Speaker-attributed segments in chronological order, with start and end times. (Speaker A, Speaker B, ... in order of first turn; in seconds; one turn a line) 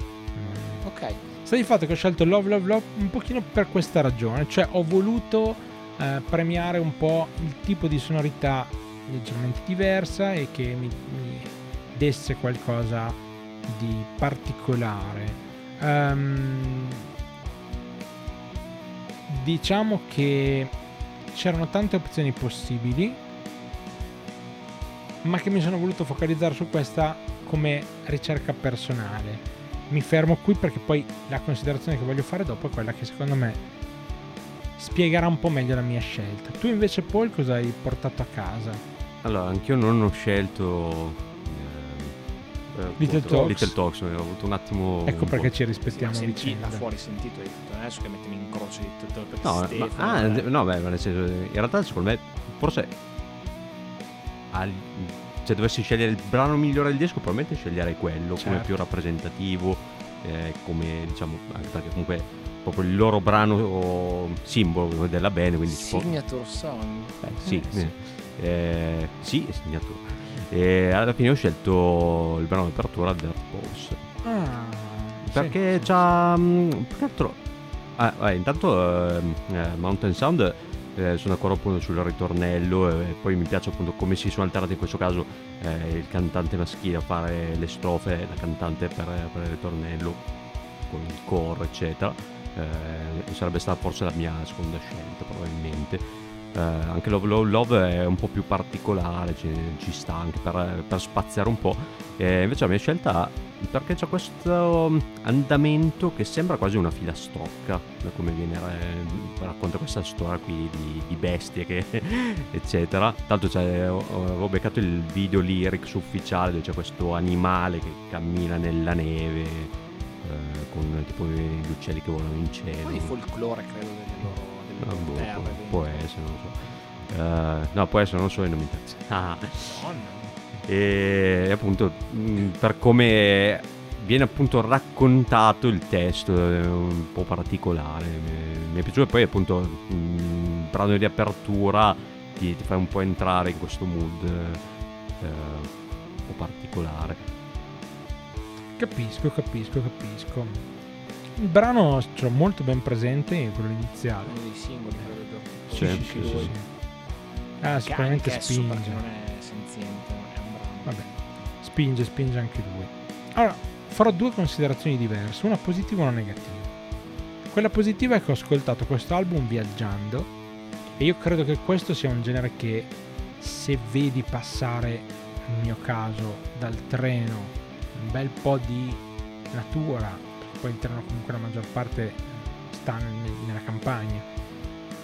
Speaker A: 0.3-0.8
Speaker B: 0.8-1.2
Speaker A: 1.4-17.1
Speaker A: 19.3-20.7
Speaker A: 21.3-23.2
Speaker A: 25.2-33.6
Speaker A: 34.8-38.8
Speaker C: 39.2-42.1
Speaker C: 42.7-45.5
Speaker B: 42.9-43.5
Speaker A: 43.0-43.7
Speaker A: 45.0-46.8
Speaker B: 45.9-50.5
Speaker C: 49.4-52.9
Speaker C: 54.5-66.2
Speaker A: 58.4-58.7
Speaker B: 65.7-67.2
Speaker C: 67.2-74.0
Speaker A: 67.4-67.9
Speaker A: 74.2-75.9
Speaker C: 75.3-77.4
Speaker C: 78.0-90.2
Speaker C: 90.8-123.1
Speaker B: 122.8-126.0
Speaker C: 124.8-129.8
Speaker B: 129.6-130.3
Speaker C: 130.7-144.6
Speaker C: 145.2-145.7
Speaker C: 146.2-147.2
Speaker A: 148.8-150.6
Speaker A: 151.3-154.3
Speaker B: 154.2-156.5
Speaker A: 155.7-156.7
Speaker C: 155.8-156.5
Speaker A: 157.6-159.0
Speaker B: 157.7-161.3
Speaker A: 161.6-166.7
Speaker A: 167.5-170.3
Speaker A: 171.0-184.3